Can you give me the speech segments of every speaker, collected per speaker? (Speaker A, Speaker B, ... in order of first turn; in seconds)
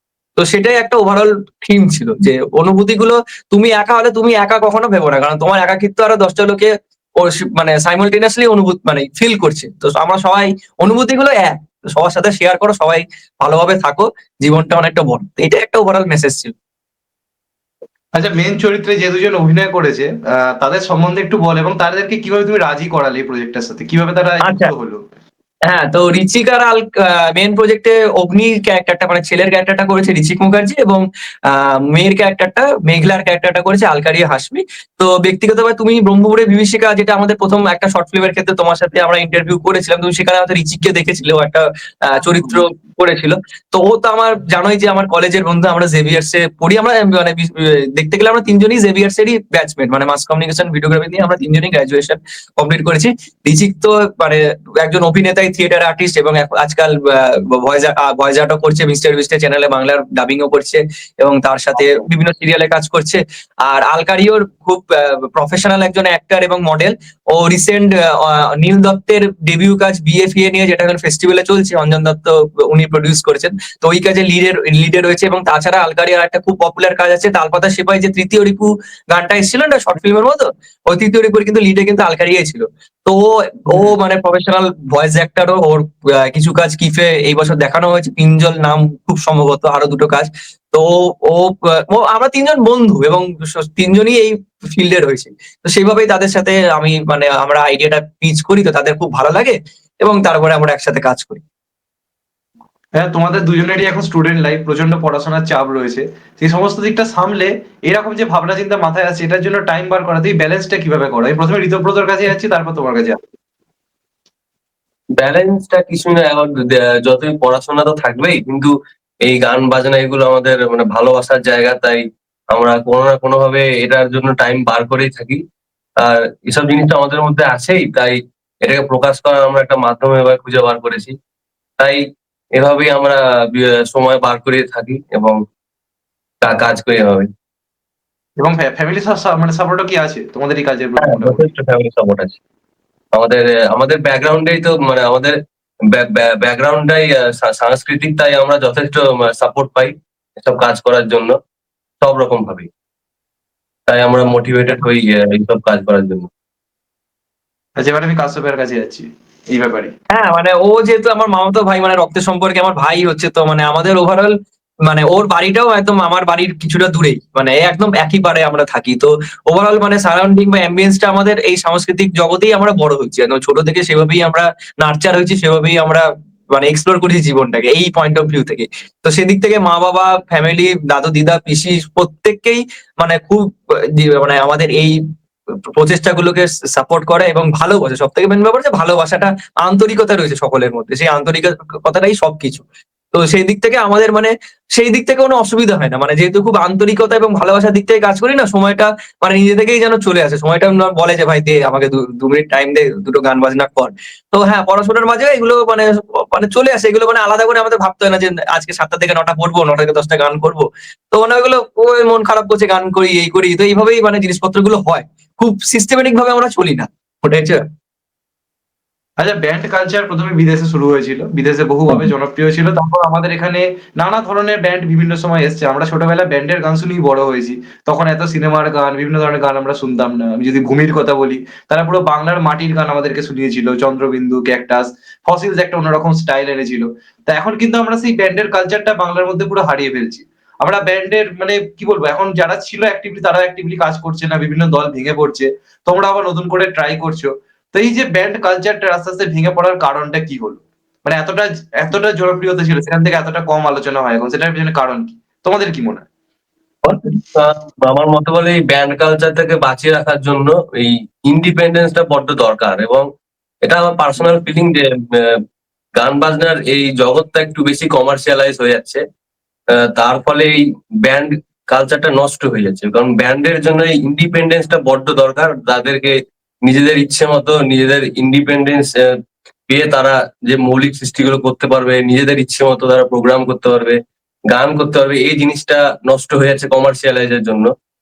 Speaker A: 0.4-16.5, 24.4-24.7, 25.7-101.4, 160.1-185.0, 185.7-217.7
Speaker B: 18.1-25.0, 103.0-113.2, 138.4-141.4, 157.8-159.9, 219.2-256.1
Speaker C: 115.2-125.4, 126.0-131.2, 132.5-135.4, 136.4-137.3, 141.0-142.4, 143.1-145.4, 145.9-151.4, 152.0-152.7, 153.9-156.3, 256.8-263.1, 263.6-265.4, 265.9-269.0, 269.7-287.7